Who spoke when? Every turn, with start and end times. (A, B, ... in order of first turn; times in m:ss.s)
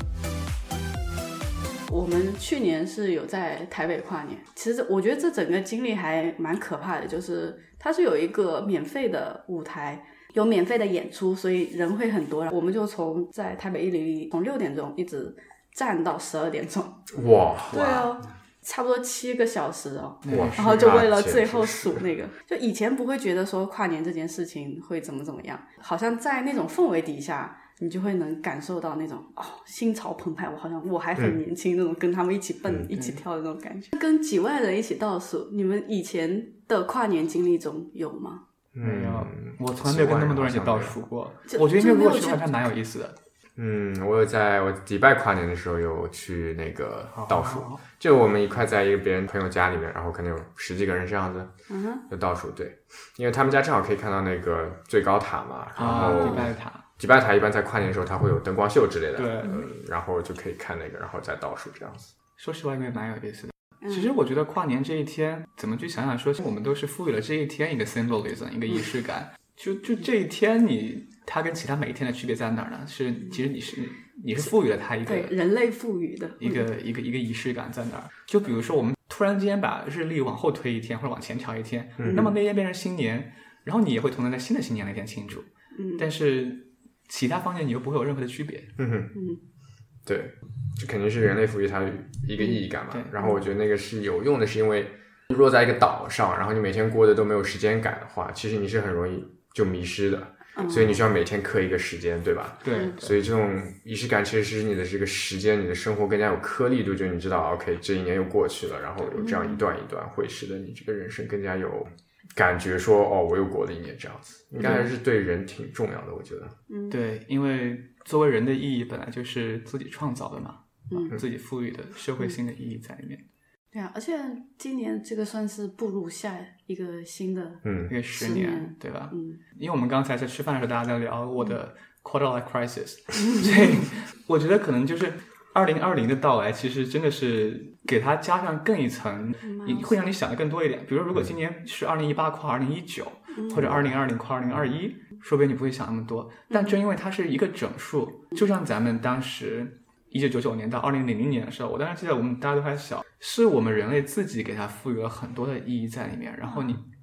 0:01.9-0:17.1 A
0:17.1-0:18.1 B
0:17.7-0:38.4 A
0:20.2-0:21.0 C
0:20.3-0:22.0 B
0:38.7-0:41.0 B
0:38.8-0:43.2 C
0:41.5-0:42.5 A
0:43.6-0:51.5 B
0:47.1-0:47.8 C
0:51.7-0:52.0 A
0:52.1-1:02.1 B
0:55.8-0:56.8 C
0:56.0-0:56.4 A
0:59.2-0:59.7 C
1:02.4-1:15.3 C
1:15.0-1:16.6 A
1:16.4-1:25.5 C
1:22.0-1:22.3 B
1:25.8-1:26.0 A
1:26.0-1:28.7 C
1:28.8-1:29.1 B
1:29.1-1:29.4 A
1:30.0-1:56.6 B
1:40.6-1:41.0 A
1:42.6-1:43.1 C
1:49.2-1:49.6 A
1:56.7-1:57.0 A
1:56.9-2:03.2 C
2:03.7-2:07.6 A
2:07.6-2:07.9 B
2:07.9-2:36.8 C
2:08.2-2:09.4 A
2:19.5-2:19.9 A
2:23.5-2:24.0 B